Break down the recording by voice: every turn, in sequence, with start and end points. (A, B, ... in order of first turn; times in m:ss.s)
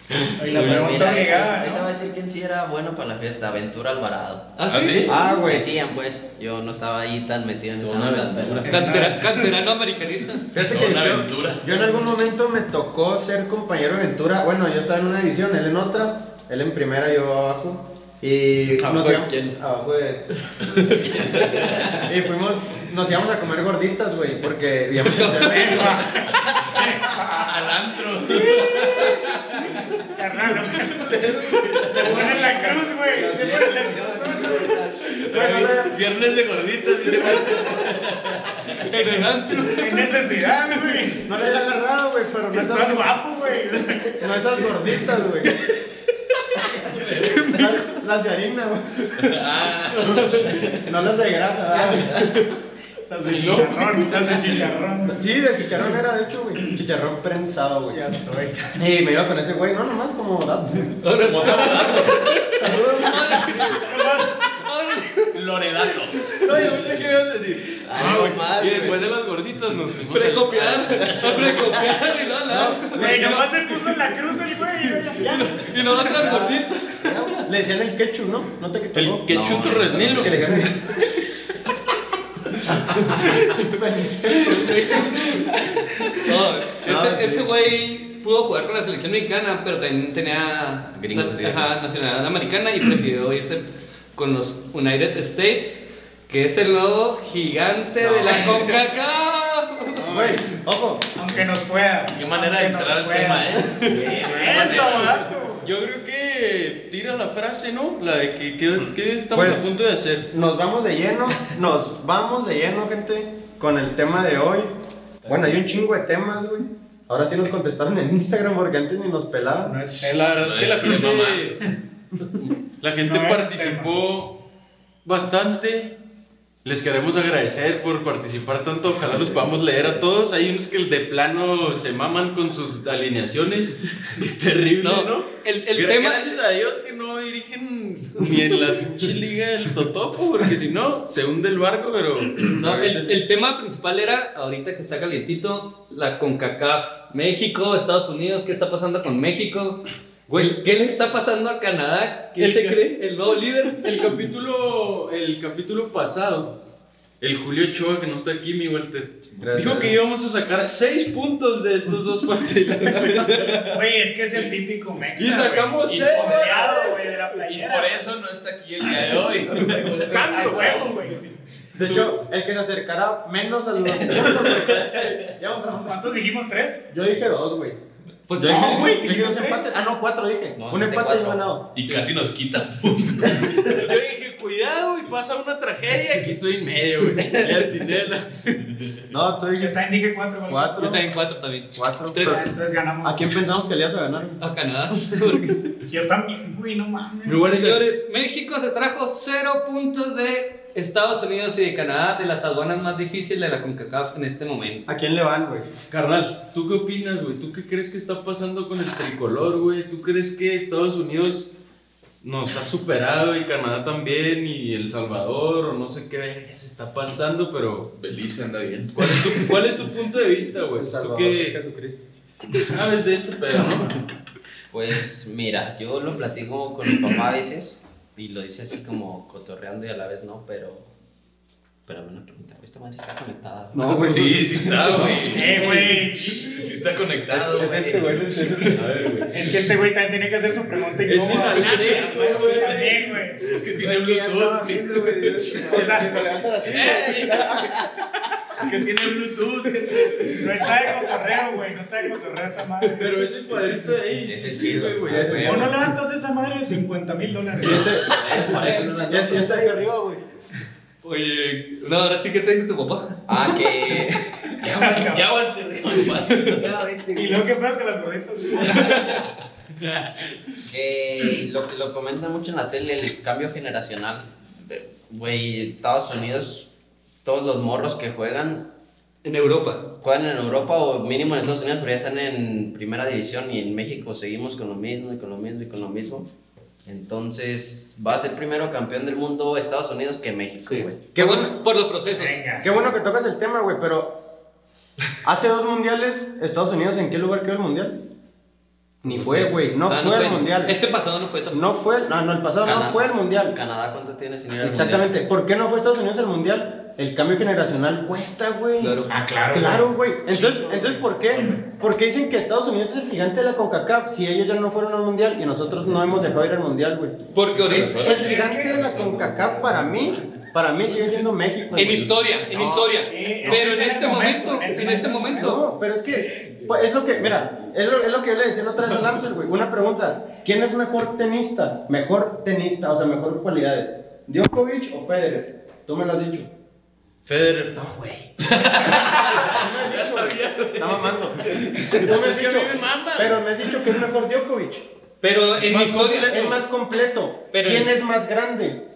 0:00.4-0:01.9 A
0:00.5-0:04.5 B
0:04.6-0:05.2 C
0:04.7-0:05.1 D
0:05.1-0:05.7 E
0:05.3-0:08.7 B
0:07.8-0:08.8 D
0:08.7-0:09.4 A
0:08.7-0:10.5 C
0:10.5-0:20.3 E
0:10.6-0:11.6 D
0:22.0-0:25.9 E
0:25.0-0:26.0 C
0:25.4-0:27.5 A
0:26.6-0:29.7 D
0:28.4-0:29.1 A
0:30.1-0:31.1 A
0:31.0-0:32.6 F
0:31.9-0:34.8 A
0:33.2-0:34.6 B
0:33.9-0:34.7 E
0:35.3-0:38.7 D
0:35.3-0:36.0 E
0:38.8-0:40.1 C
0:39.7-0:41.3 A
0:41.2-0:43.2 E
0:42.5-0:44.3 A
0:44.2-0:45.6 E
0:47.0-0:49.4 E
0:47.1-0:48.0 C
0:49.2-0:50.7 D
0:50.8-0:52.2 E
0:53.1-0:56.0 A
0:53.2-0:54.7 F
0:55.1-0:58.0 E
0:57.9-0:58.8 A
0:58.8-1:01.0 E
1:01.0-1:05.3 C
1:01.3-1:02.2 D
1:02.6-1:03.1 A
1:03.7-1:04.4 A
1:05.3-1:06.2 D
1:06.3-1:12.0 F
1:07.8-1:09.1 B
1:10.1-1:13.8 C
1:11.1-1:11.5 B
1:12.5-1:13.4 E
1:13.0-1:16.5 A
1:15.2-1:17.4 C
1:16.1-1:19.3 E
1:19.0-1:20.8 F
1:19.3-1:20.4 B
1:20.0-1:20.9 E
1:23.5-1:24.9 E
1:24.4-1:25.5 C
1:26.2-1:40.1 C
1:26.8-1:27.5 E
1:31.0-1:31.7 B
1:38.3-1:38.6 F
1:40.0-1:40.6 F
1:40.1-1:41.1 E
1:41.2-1:45.7 A
1:42.1-1:45.3 D
1:45.6-1:50.3 F
1:49.3-1:49.7 E
1:50.3-1:54.7 E
1:55.2-1:59.8 E
1:59.6-2:00.3 A
2:00.0-2:01.6 F
2:00.3-2:01.6 D
2:02.8-2:04.4 F
2:03.0-2:04.0 A
2:05.0-2:06.0 F
2:06.6-2:23.2 F
2:14.8-2:16.4 C
2:22.5-2:34.0 C
2:32.4-2:33.0 F
2:33.8-2:36.6 F
2:37.2-2:43.8 F
2:39.4-2:40.0 E
2:43.5-2:48.1 A
2:45.2-2:47.0 F
2:45.9-2:46.7 D
2:47.5-2:50.9 D
2:49.6-2:51.2 A
2:50.1-2:50.8 E
2:51.8-2:56.0 E
2:54.0-2:55.0 D
2:55.7-2:56.9 A
2:56.9-2:57.8 E
2:58.3-2:59.0 C
2:58.4-3:01.7 E
2:58.4-2:59.6 A
3:00.6-3:01.5 B
3:01.8-3:03.7 D
3:03.7-3:08.9 F
3:09.1-3:09.8 E
3:09.6-3:10.8 A
3:10.5-3:11.1 E
3:10.8-3:12.5 C
3:11.7-3:12.5 E
3:12.2-3:13.4 A
3:13.0-3:14.4 E
3:14.4-3:15.7 C
3:15.9-3:17.6 A
3:17.3-3:24.9 C
3:24.9-3:25.7 E
3:25.9-3:31.5 F
3:32.2-3:38.0 F
3:38.0-3:39.0 D
3:39.0-3:41.6 F
3:40.8-3:42.0 E
3:42.5-3:44.0 F
3:44.7-3:50.9 B
3:51.9-3:54.3 B
3:53.7-3:55.9 E
3:54.0-3:58.2 D
3:55.3-3:56.7 A
3:57.3-3:59.1 E
3:58.6-3:59.3 F
3:59.3-4:03.5 A
4:01.1-4:03.2 F
4:03.4-4:05.6 D
4:03.8-4:07.8 E
4:04.8-4:05.9 F
4:05.6-4:06.2 A
4:06.7-4:07.5 D
4:08.6-4:10.3 D
4:10.0-4:10.7 F
4:10.3-4:13.2 A
4:13.0-4:15.7 F
4:14.2-4:15.8 B
4:15.1-4:15.7 E
4:15.4-4:18.0 A
4:17.6-4:18.2 E
4:18.0-4:20.0 B
4:18.6-4:18.9 C
4:19.1-4:20.0 E
4:21.0-4:23.2 C
4:23.3-4:24.3 B
4:24.6-4:26.7 D
4:24.6-4:25.2 A
4:26.6-4:27.4 E
4:27.1-4:29.3 A
4:30.7-4:36.7 B
4:37.2-4:38.7 B
4:39.2-4:39.9 C
4:40.0-4:46.3 B
4:46.8-4:51.0 B
4:50.7-4:52.4 C
4:51.2-4:51.6 E
4:52.1-4:52.8 A
4:52.6-4:54.2 E
4:55.2-4:58.0 E
4:59.0-5:00.8 E
4:59.2-5:01.7 C
5:01.5-5:03.6 E
5:02.6-5:05.2 B
5:04.6-5:22.2 E
5:08.8-5:09.1 C
5:09.1-5:11.6 A
5:17.3-5:18.2 C
5:17.6-5:19.7 D
5:18.0-5:19.0 A
5:21.7-5:25.6 C
5:22.5-5:22.9 D
5:23.0-5:25.6 A
5:25.4-5:36.5 E
5:37.3-5:37.7 F
5:37.8-5:38.3 E
5:38.5-5:41.0 D
5:39.1-5:44.9 E
5:41.7-5:43.4 F
5:45.2-5:46.4 C
5:45.6-5:46.6 F
5:46.3-5:48.8 E
5:47.5-5:47.9 C